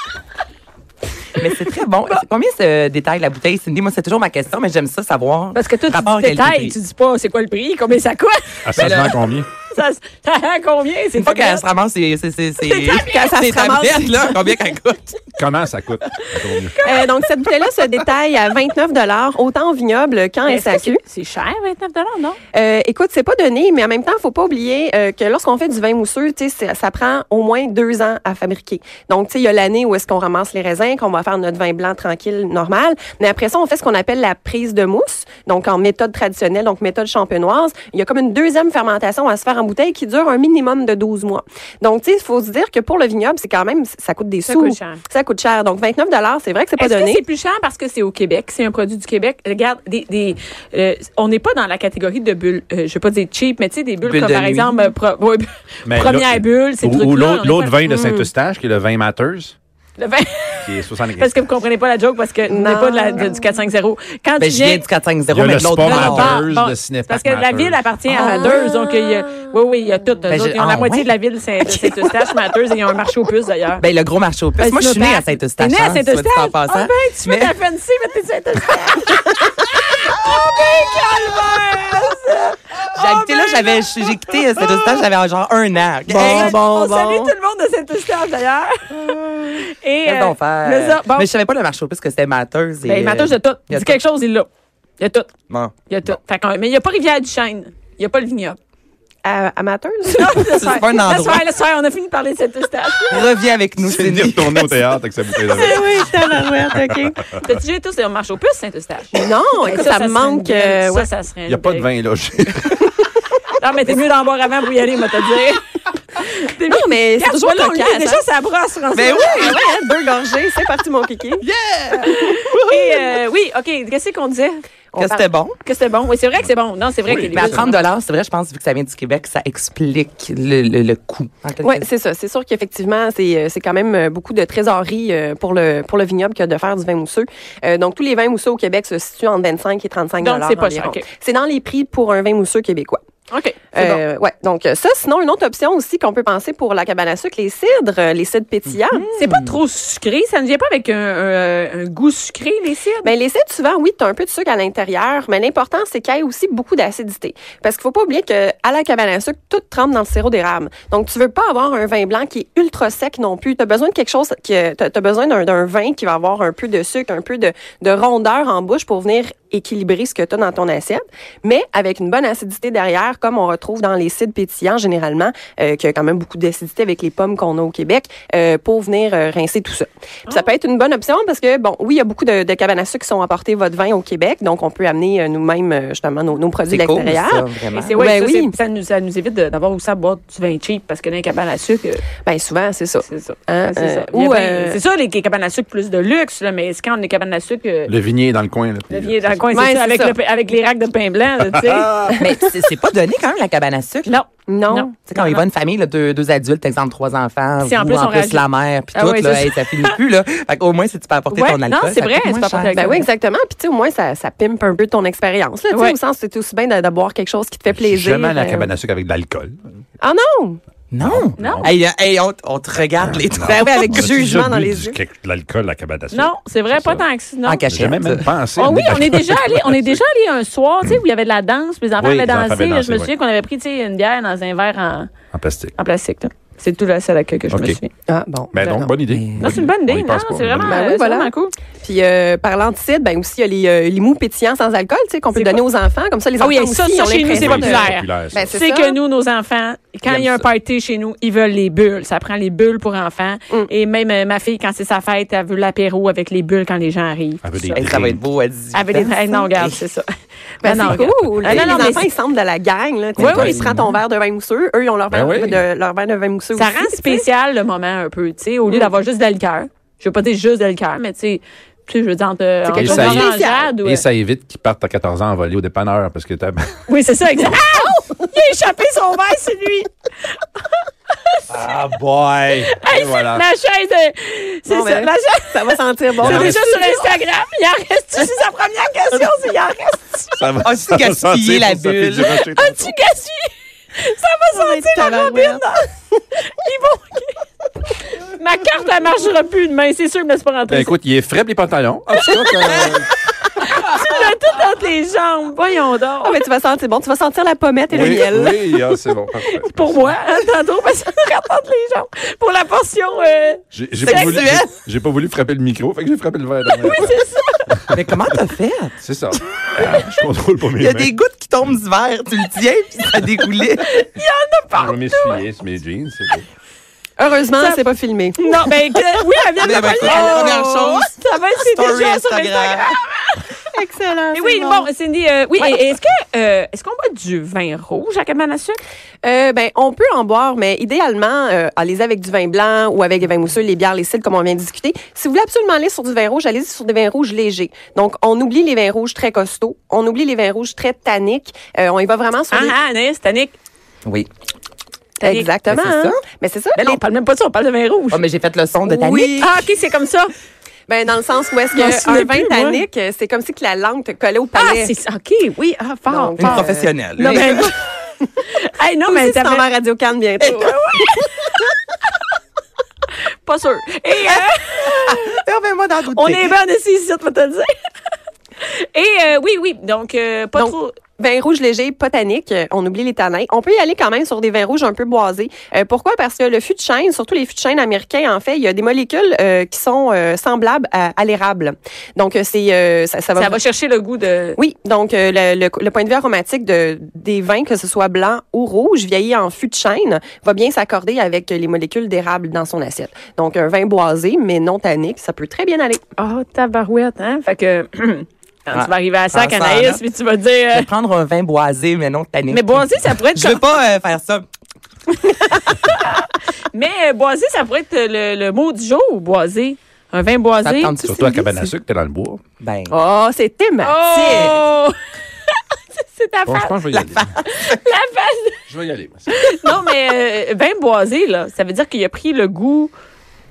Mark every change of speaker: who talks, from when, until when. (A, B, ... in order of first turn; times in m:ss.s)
0:01.4-0:06.8 A
0:05.5-0:08.6 B
0:08.7-0:09.5 C
0:08.8-0:09.2 A
0:09.7-0:11.6 B
0:11.2-0:15.3 A
0:12.6-0:13.3 B
0:13.0-0:14.5 D
0:15.4-0:16.8 C
0:16.7-0:17.0 B
0:16.8-0:21.0 D
0:20.5-0:22.4 B
0:22.5-0:47.2 D
0:44.5-0:45.0 B
0:46.8-0:57.8 B
0:54.0-0:54.9 A
0:55.9-0:59.6 C
0:57.9-0:58.3 D
1:00.0-1:04.9 B
1:00.6-1:01.3 C
1:02.5-1:03.4 D
1:04.4-1:06.5 A
1:05.3-1:08.2 C
1:05.8-1:13.8 B
1:08.2-1:09.4 D
1:10.3-1:11.1 A
1:13.8-1:17.5 A
1:14.6-1:25.0 B
1:23.0-1:26.6 A
1:26.1-1:27.3 D
1:26.1-1:31.3 B
1:30.0-1:34.0 A
1:32.8-1:34.5 B
1:35.0-1:35.3 B
1:35.9-1:38.6 B
1:39.2-1:40.5 D
1:40.1-1:43.3 B
1:40.4-1:41.5 A
1:43.1-1:44.8 A
1:43.8-1:46.1 C
1:45.4-1:47.2 D
1:46.2-1:46.7 A
1:46.8-1:47.1 C
1:47.4-1:51.9 B
1:49.1-1:51.1 D
1:51.5-1:52.9 C
1:53.6-1:59.6 B
1:56.7-1:58.2 D
1:58.9-1:59.6 A
1:59.2-2:01.4 D
2:01.4-2:02.1 C
2:02.0-2:04.6 B
2:04.9-2:05.3 D
2:05.0-2:05.6 A
2:05.6-2:07.8 B
2:07.0-2:07.7 C
2:07.3-2:11.9 A
2:11.6-2:23.0 D
2:20.2-2:21.1 B
2:23.3-2:24.0 B
2:23.7-2:29.1 D
2:29.1-2:33.1 B
2:29.2-2:29.6 A
2:33.0-3:08.6 D
3:06.7-3:08.0 A
3:07.7-3:12.0 B
3:12.2-3:14.8 D
3:13.1-3:17.9 B
3:17.9-3:19.4 C
3:18.9-3:22.1 B
3:19.5-3:20.2 D
3:21.5-3:22.1 C
3:22.2-3:24.1 A
3:24.0-3:25.4 B
3:24.5-3:24.9 D
3:25.0-3:32.9 A
3:27.6-3:30.0 B
3:31.3-3:33.0 B
3:32.7-3:38.7 D
3:35.7-3:36.0 B
3:37.7-3:39.6 C
3:40.0-3:40.6 D
3:40.9-3:44.1 A
3:41.0-3:41.7 C
3:41.4-3:41.7 B
3:43.0-3:47.1 C
3:43.4-3:45.0 D
3:46.1-3:47.6 B
3:47.4-3:48.3 A
3:47.7-3:50.0 C
3:48.6-3:55.1 B
3:52.0-3:53.1 C
3:55.3-3:55.7 C
3:55.8-3:57.9 B
3:57.5-3:57.8 C
3:58.1-3:59.0 D
3:58.5-4:00.8 C
3:59.1-3:59.6 A
3:59.4-4:01.5 B
4:00.6-4:09.0 D
4:05.3-4:05.6 B
4:06.4-4:17.9 B
4:07.3-4:08.6 C
4:10.1-4:10.4 A
4:17.4-4:18.2 C
4:17.8-4:19.8 A
4:18.7-4:20.1 B
4:20.6-4:22.1 B
4:20.6-4:27.2 D
4:21.4-4:21.9 A
4:23.2-4:23.7 A
4:23.2-4:23.6 B
4:23.3-4:24.0 C
4:25.1-4:25.6 C
4:26.6-4:34.0 B
4:32.7-4:33.7 D
4:32.7-4:36.8 C
4:36.9-4:41.4 B
4:41.5-4:43.4 C
4:42.7-4:45.6 B
4:44.7-4:47.1 D
4:46.2-4:50.4 B
4:46.2-4:46.6 C
4:50.3-4:53.0 C
4:50.6-4:52.5 A
4:52.5-4:53.5 B
4:54.0-4:55.9 B
4:54.5-4:55.6 D
4:56.5-4:57.4 B
4:58.2-5:00.9 B
5:00.7-5:03.1 C
5:03.6-5:06.4 B
5:06.2-5:08.6 D
5:07.9-5:10.2 C
5:09.4-5:14.6 B
5:13.7-5:17.2 C
5:14.0-5:14.8 A
5:16.7-5:17.7 B
5:17.8-5:18.0 C
5:17.9-5:19.0 A
5:19.0-5:21.1 C
5:20.8-5:23.9 A
5:23.8-5:25.4 B
5:24.8-5:26.5 C
5:27.2-5:30.7 D
5:28.4-5:33.6 B
5:29.6-5:33.0 A
5:33.7-5:34.9 D
5:34.3-5:38.8 B
5:39.2-5:52.8 D
5:52.5-5:53.6 B
5:55.2-5:55.5 B
5:55.2-5:57.0 D
5:55.7-5:56.2 A
5:56.8-5:58.2 B
5:58.1-5:59.5 A
5:58.9-5:59.7 D
5:59.4-6:00.3 B
6:00.9-6:04.9 D
6:01.7-6:02.8 B
6:04.6-6:07.9 B
6:06.1-6:07.7 D
6:06.4-6:07.7 A
6:08.4-6:09.6 B
6:09.1-6:11.1 D
6:10.4-6:11.8 B
6:13.4-6:15.4 B
6:14.3-6:16.5 A
6:16.1-6:17.7 B
6:18.6-6:21.0 B
6:20.6-6:33.6 D
6:33.4-6:34.6 B
6:34.6-6:46.0 D
6:46.2-6:50.9 B
6:48.7-6:50.0 A
6:50.7-6:54.5 A
6:52.5-6:53.6 B
6:55.7-7:01.0 B
7:00.6-7:01.7 A
7:01.0-7:02.4 C
7:02.6-7:02.9 A
7:02.9-7:04.6 D
7:03.8-7:05.0 B
7:04.1-7:04.6 A
7:06.0-7:07.0 B
7:06.5-7:07.4 C
7:07.0-7:07.2 A
7:07.6-7:08.6 B
7:08.7-7:09.3 C
7:09.3-7:12.9 B